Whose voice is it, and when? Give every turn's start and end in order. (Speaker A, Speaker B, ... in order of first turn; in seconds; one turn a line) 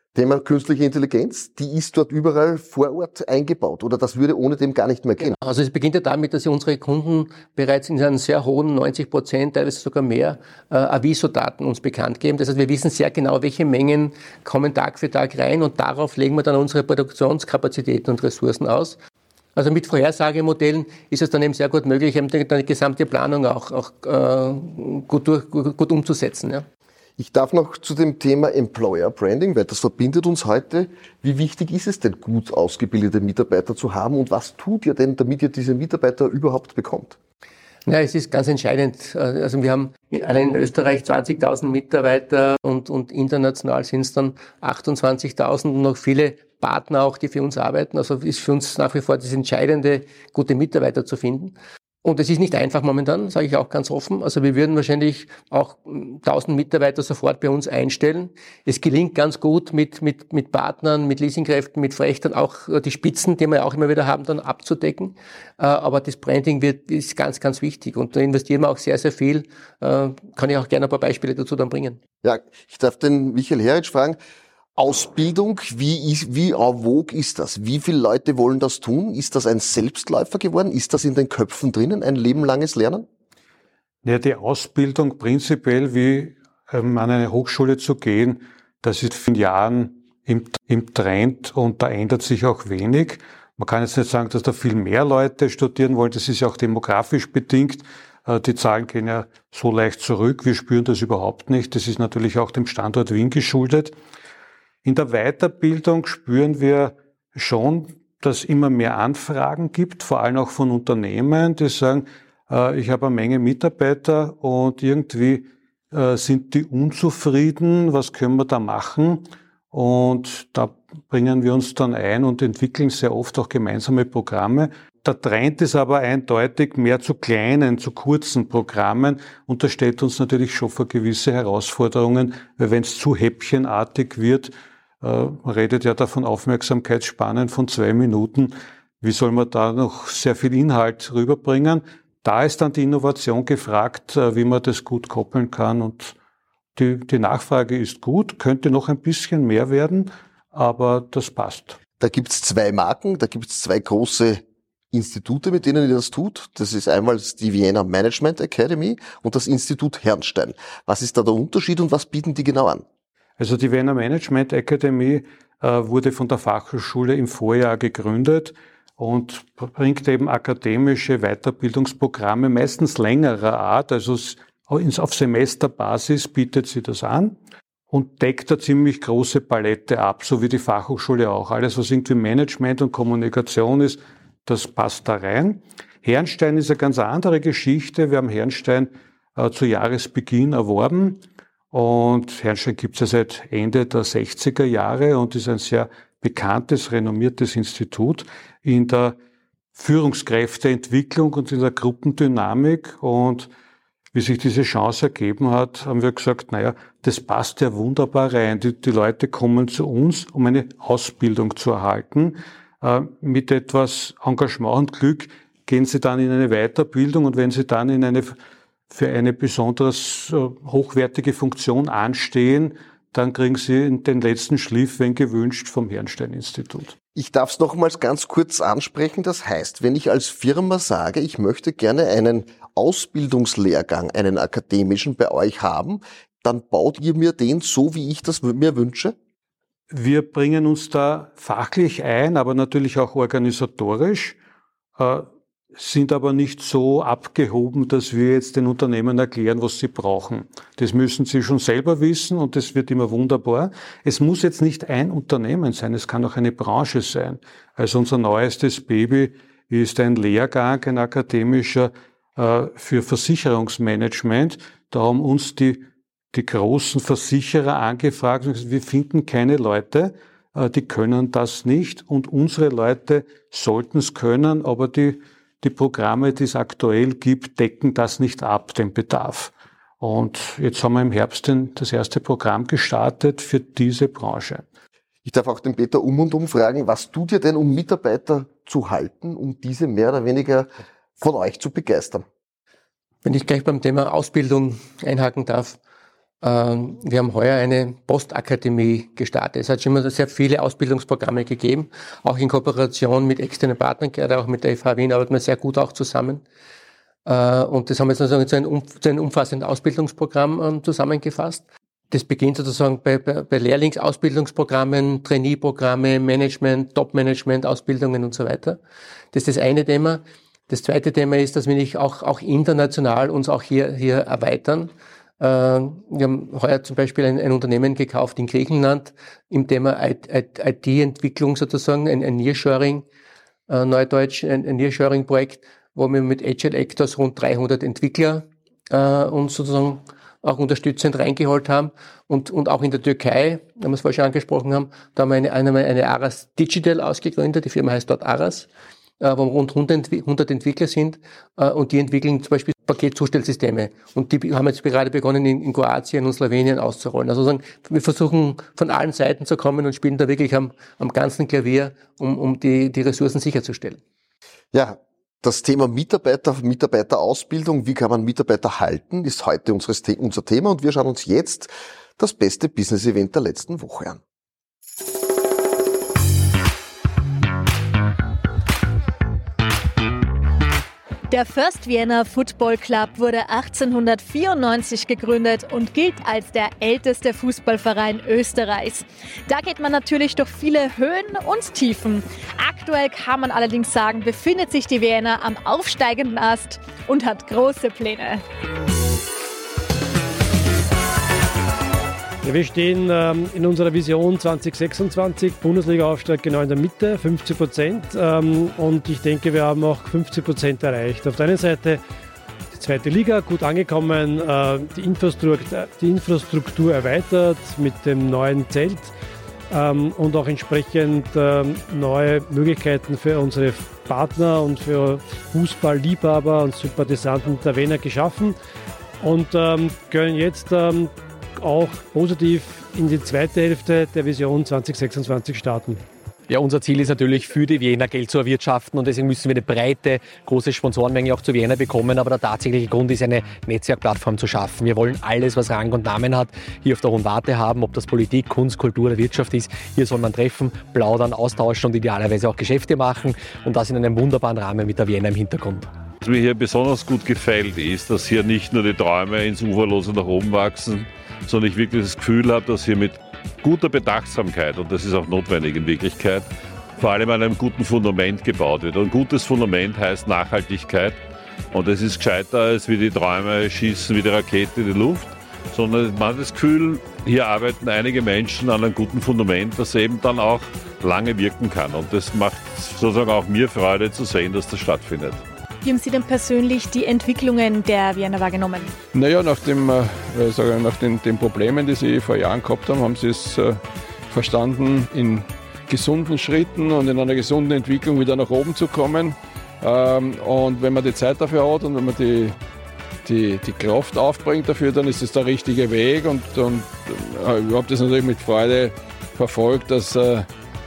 Speaker A: 0.1-5.4
Speaker B: 5.2-19.0
Speaker B: 19.6-26.7
Speaker A: 27.2-37.2
Speaker B: 37.9-72.0
Speaker A: 72.2-74.2
Speaker A: 74.8-83.1
Speaker C: 84.0-103.9
Speaker C: 104.8-146.2
Speaker C: 146.8-151.8
Speaker A: 152.0-162.8
Speaker C: 163.4-177.4
Speaker C: 177.9-199.2
Speaker C: 199.8-203.5
Speaker C: 204.1-218.4
Speaker C: 218.9-226.9
Speaker A: 227.2-239.2
Speaker C: 239.9-244.4
Speaker C: 245.0-284.6
Speaker A: 285.2-292.2
Speaker B: 293.2-295.8
Speaker B: 296.4-306.4
Speaker B: 307.2-318.8
Speaker B: 319.3-333.1
Speaker B: 333.7-348.7
Speaker B: 349.2-364.0
Speaker A: 364.7-374.2
Speaker D: 381.3-398.4
Speaker E: 402.4-412.0
Speaker E: 412.7-419.1
Speaker E: 419.7-428.5
Speaker E: 429.2-436.0
Speaker F: 436.5-455.9
Speaker G: 456.2-471.2
Speaker G: 471.7-485.4
Speaker D: 485.8-488.9
Speaker H: 489.1-502.6
Speaker H: 503.2-510.5